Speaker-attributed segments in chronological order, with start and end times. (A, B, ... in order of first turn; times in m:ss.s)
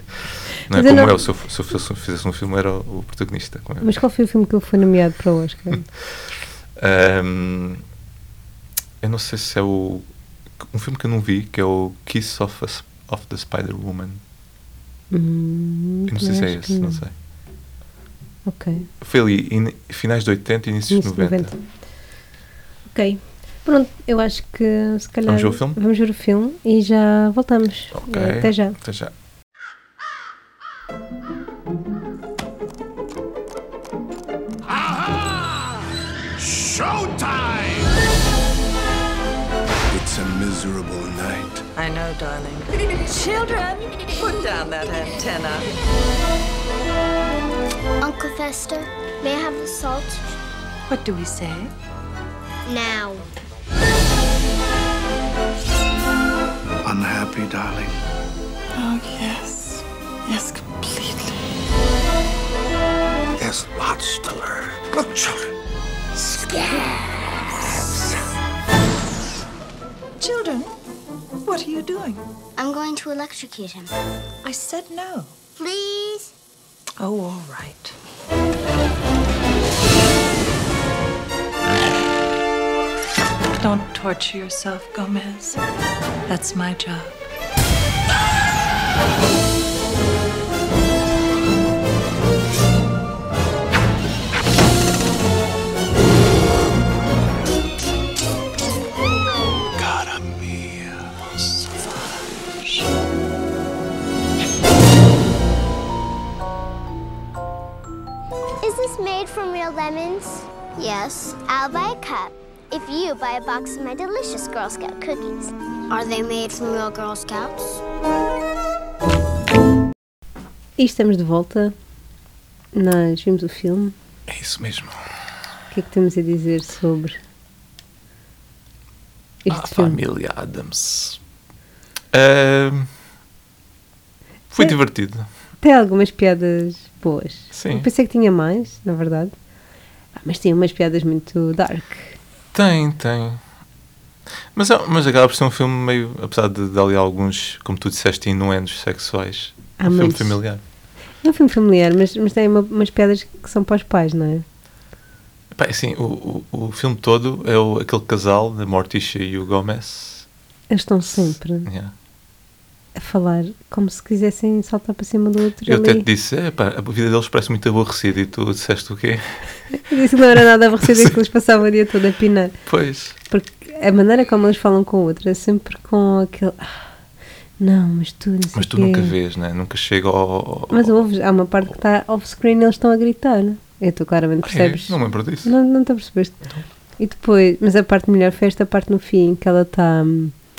0:00.7-0:04.0 A
0:00.7-0:01.2 B
0:03.8-0:05.9 B
0:06.8-0:07.8 A
0:09.0-0:10.0 A
0:10.6-0:14.2 A
0:15.1-0:17.0 B
0:16.1-0:17.1 A
0:18.4-0:18.9 B
0:19.0-0:21.5 A
0:20.9-0:21.6 B
0:22.9-0:28.8 B
0:25.3-0:25.8 A
0:27.9-0:29.1 A
0:34.7-0:35.8 C
0:36.4-0:38.0 C
0:39.9-0:41.6 C
0:41.8-0:45.7 D
0:48.0-0:50.3 E
0:50.9-0:51.7 D
0:52.6-0:53.3 E
0:56.8-0:57.9 C
0:58.7-1:01.4 D
1:03.4-1:05.5 C
1:06.1-1:08.2 C
1:10.2-1:10.7 D
1:11.4-1:12.2 D
1:12.6-1:13.9 E
1:14.4-1:15.3 D
1:15.6-1:16.3 E
1:17.0-1:17.9 D
1:23.6-1:25.6 D
1:26.3-1:27.2 D
1:39.8-1:41.7 C
1:48.6-1:57.8 E
2:00.8-2:01.7 B
2:02.7-2:03.9 B
2:04.3-2:05.0 A
2:05.7-2:07.2 B
2:09.4-2:10.0 B
2:09.5-2:11.2 A
2:12.1-2:12.9 A
2:14.5-2:15.3 A
2:15.6-2:19.3 B
2:17.5-2:17.9 A
2:20.1-2:22.2 B
2:22.5-2:23.4 A
2:24.5-2:30.6 A
2:29.8-2:30.4 B
2:31.2-2:34.4 B
2:35.5-2:40.3 A
2:40.7-2:41.7 B
2:41.6-2:41.9 A
2:43.0-2:46.0 B
2:45.6-2:49.5 A
2:49.7-2:52.6 B
2:50.8-2:51.1 A
2:52.6-2:53.2 A
2:53.3-2:56.9 B
2:57.6-2:59.1 B
2:58.5-3:00.9 A
3:00.7-3:06.4 B
3:04.4-3:05.5 A
3:07.0-3:10.3 B